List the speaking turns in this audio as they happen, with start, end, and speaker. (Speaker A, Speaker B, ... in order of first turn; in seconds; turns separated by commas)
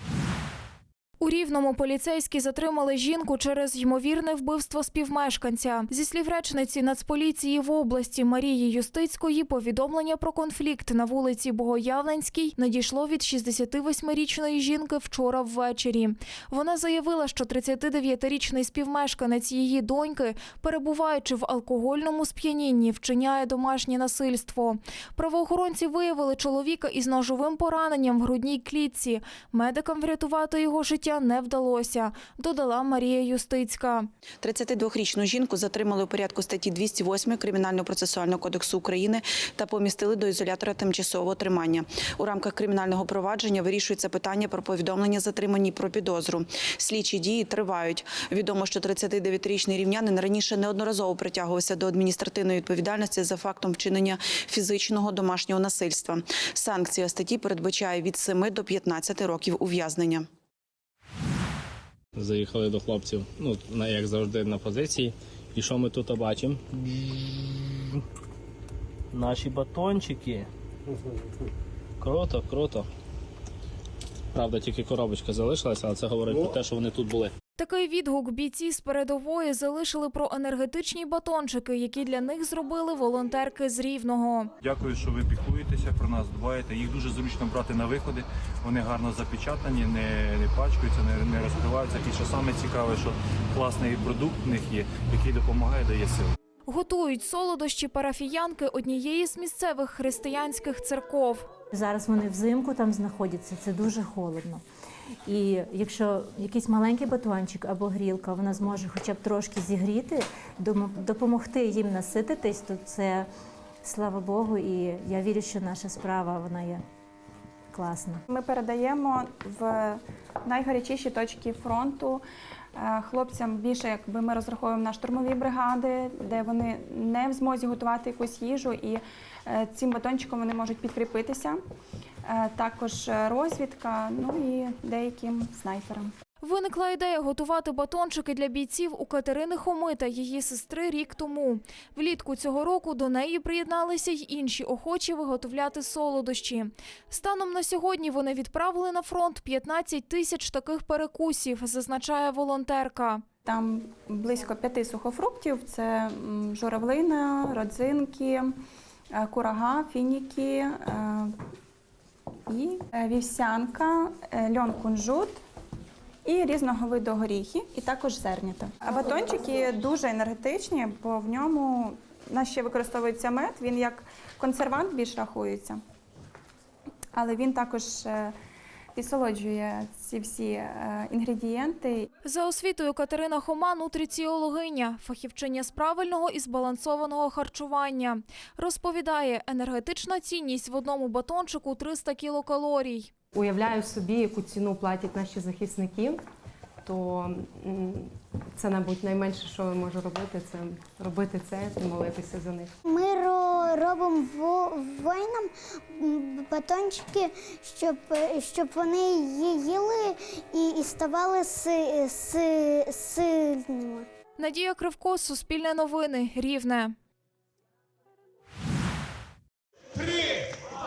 Speaker A: 1.2-34.1, Speaker B: 34.4-60.3, Speaker C: 62.2-66.6, Speaker C: 69.1-70.4, Speaker C: 72.0-72.8, Speaker C: 74.3-77.3, Speaker A: 77.6-84.5, Speaker D: 84.6-96.3, Speaker A: 96.7-101.5, Speaker E: 101.7-104.6, Speaker E: 105.3-113.2, Speaker E: 113.8-116.8, Speaker E: 117.7-118.2, Speaker F: 118.3-122.2, Speaker F: 122.8-131.6, Speaker F: 132.3-136.1, Speaker A: 136.4-153.2, Speaker F: 153.4-158.5, Speaker F: 159.2-161.3, Speaker F: 162.5-165.4, Speaker F: 166.2-175.8, Speaker F: 177.1-178.3, Speaker F: 178.9-182.1, Speaker A: 182.2-193.1, Speaker G: 193.3-196.2, Speaker G: 196.8-202.7, Speaker H: 202.9-205.5, Speaker H: 206.0-214.1, Speaker A: 214.4-216.9